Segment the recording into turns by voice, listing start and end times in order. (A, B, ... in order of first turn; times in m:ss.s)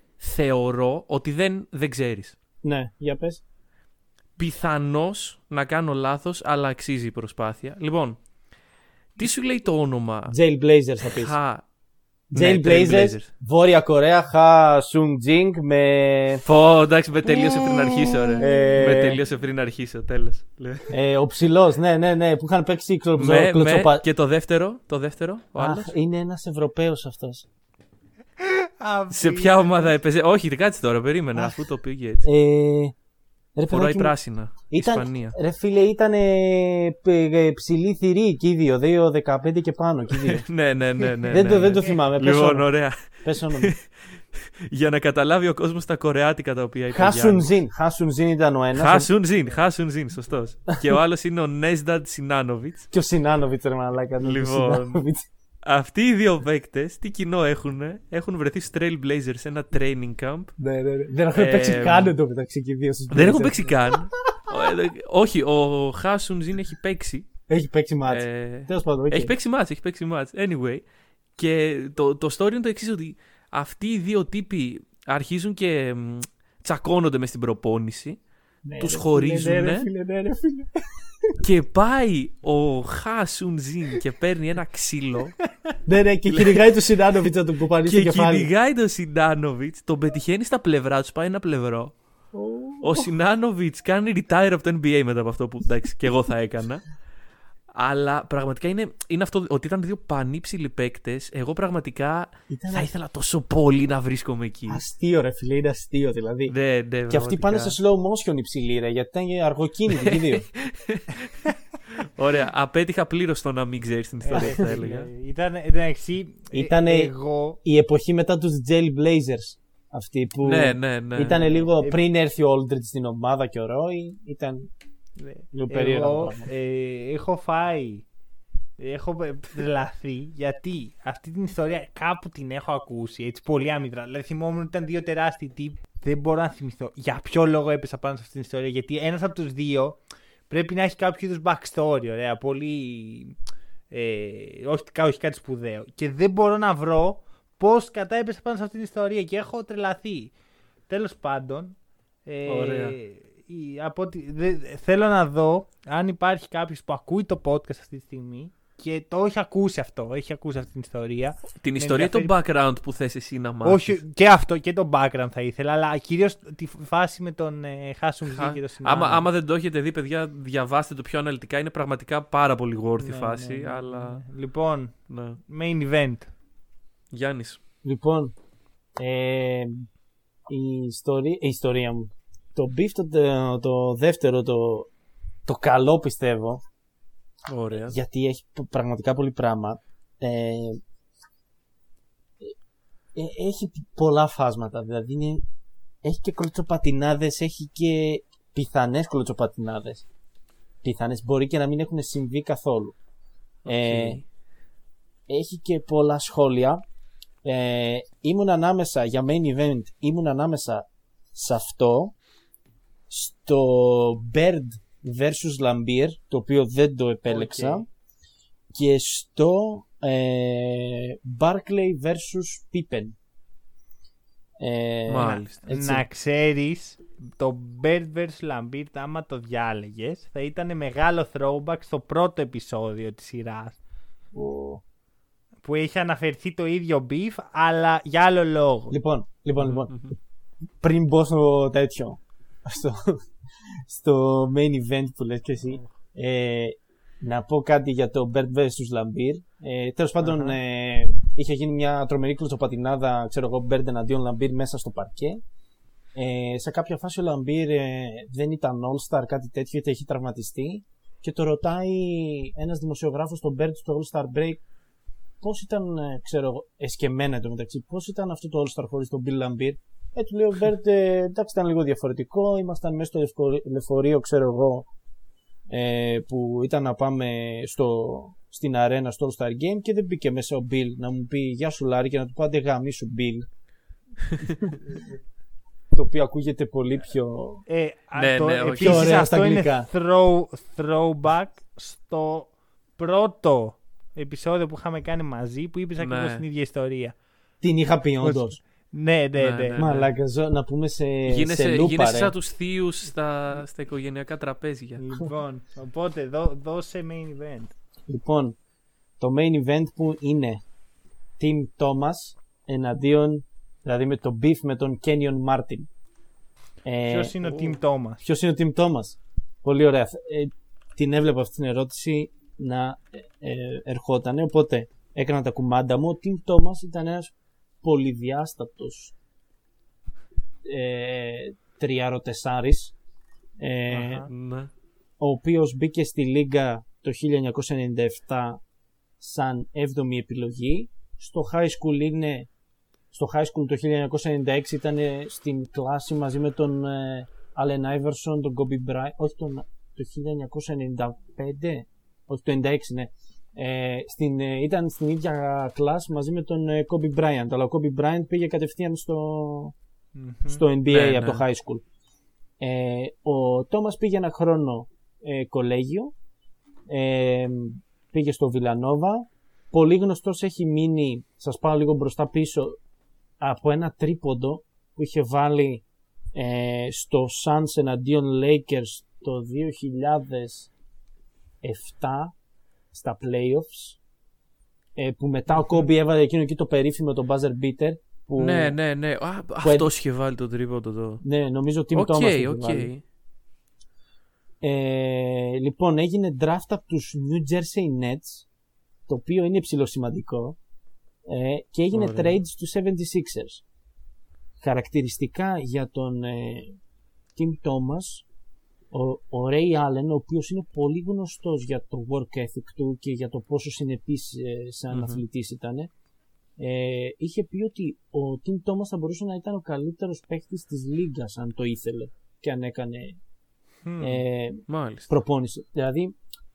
0:00.2-0:02.4 A
0:02.6-0:03.4 B
0:04.4-0:08.2 A
0:09.2-0:10.4 A
0:10.3-0:11.4 B
0:11.0-0:11.6 A
0:12.3-0:13.3 A
0:12.3-0:16.4 B
0:16.4-0:20.9 A
0:18.1-0:19.1 C
0:18.4-0:19.2 B
0:20.9-0:24.0 B
0:23.2-0:25.9 A
0:25.6-0:27.5 B
0:28.4-0:29.9 C
0:29.1-0:32.3 A
0:32.2-0:32.9 B
0:33.6-0:34.1 B
0:33.7-0:35.4 A
0:34.7-0:40.4 B
0:40.2-0:47.5 A
0:41.2-0:42.7 B
0:41.4-0:42.0 C
0:43.2-0:43.7 B
0:46.9-0:49.1 B
0:48.7-0:52.9 A
0:52.9-0:55.2 B
0:54.2-0:55.0 A
0:55.6-1:00.5 A
1:00.6-1:04.0 B
1:01.3-1:02.2 A
1:03.1-1:07.3 A
1:07.5-1:09.3 B
1:08.1-1:10.8 A
1:11.4-1:18.2 A
1:18.6-1:21.4 B
1:18.8-1:19.9 A
1:21.4-1:25.4 A
1:25.8-1:28.5 B
1:26.3-1:26.7 A
1:27.8-1:31.9 A
1:32.3-1:33.1 B
1:32.8-1:36.8 A
1:37.7-1:44.8 A
1:42.5-1:42.9 B
1:44.7-1:46.6 B
1:46.5-1:47.8 A
1:47.1-1:50.4 B
1:50.0-1:55.1 A
1:54.2-1:57.6 C
1:56.5-1:57.1 B
1:57.6-2:04.7 B
2:00.4-2:01.4 A
2:01.3-2:02.0 C
2:05.2-2:08.0 C
2:05.5-2:06.5 B
2:08.8-2:23.4 C
2:23.9-2:30.3 C
2:30.9-2:42.3 C
2:32.5-2:33.0 A
2:41.6-2:44.0 A
2:43.6-2:49.2 C
2:48.3-2:54.2 A
2:53.0-2:56.3 C
2:55.1-2:55.4 A
2:57.1-2:57.6 A
2:57.8-2:58.3 B
2:59.0-2:59.9 B
3:00.5-3:04.9 B
3:05.4-3:06.6 B
3:07.5-3:08.0 A
3:07.8-3:10.8 B
3:13.1-3:15.4 B
3:16.0-3:20.0 B
3:20.8-3:23.0 B
3:23.6-3:24.2 A
3:23.6-3:24.2 B
3:25.3-3:26.8 B
3:27.4-3:32.1 B
3:33.1-3:37.8 B
3:37.3-3:37.8 C
3:38.7-3:43.2 B
3:44.6-3:46.0 B
3:45.1-3:45.6 A
3:45.2-3:53.8 C
3:54.3-3:54.8 B
3:55.6-3:59.0 C
3:58.9-4:00.0 B
3:59.6-4:00.1 A
4:00.8-4:15.4 B
4:10.2-4:10.6 C
4:16.1-4:24.6 B
4:25.4-4:34.9 B
4:35.7-4:43.4 B
4:45.9-4:47.6 B
4:47.7-4:57.1 C
4:48.2-4:49.2 A
4:48.8-4:49.9 B
4:56.0-4:56.4 A
4:57.6-4:58.6 B
4:58.2-5:00.0 C
4:59.4-5:00.0 A
4:59.8-5:02.3 B
5:01.2-5:05.0 A
5:05.0-5:07.7 C
5:08.1-5:08.6 B
5:09.2-5:10.6 B
5:11.4-5:15.9 B
5:16.8-5:17.3 B
5:17.0-5:18.2 C
5:18.2-5:29.1 B
5:30.6-5:32.9 B
5:33.6-5:34.3 B
5:33.9-5:34.3 C
5:34.3-5:34.7 A
5:35.2-5:38.6 B
5:39.2-5:42.5 B
5:43.1-5:59.7 B
6:00.2-6:00.6 C
6:00.5-6:01.8 B
6:00.9-6:01.4 A
6:02.6-6:06.1 B
6:06.9-6:12.8 B
6:13.4-6:20.7 B
6:21.6-6:22.3 B
6:22.9-6:24.0 B
6:25.0-6:28.8 B
6:25.5-6:25.8 C
6:28.4-6:31.2 A
6:29.6-6:29.9 B
6:31.2-6:32.9 B
6:31.9-6:33.0 A
6:34.6-6:38.4 B
6:39.1-6:40.6 B
6:41.2-6:43.6 B
6:41.9-6:42.4 A
6:44.6-6:46.8 B
6:47.4-6:48.2 B
6:48.9-6:55.9 B
6:54.9-6:55.2 A
6:56.6-7:03.2 B
7:03.8-7:04.2 C
7:04.0-7:06.2 B
7:04.7-7:05.1 A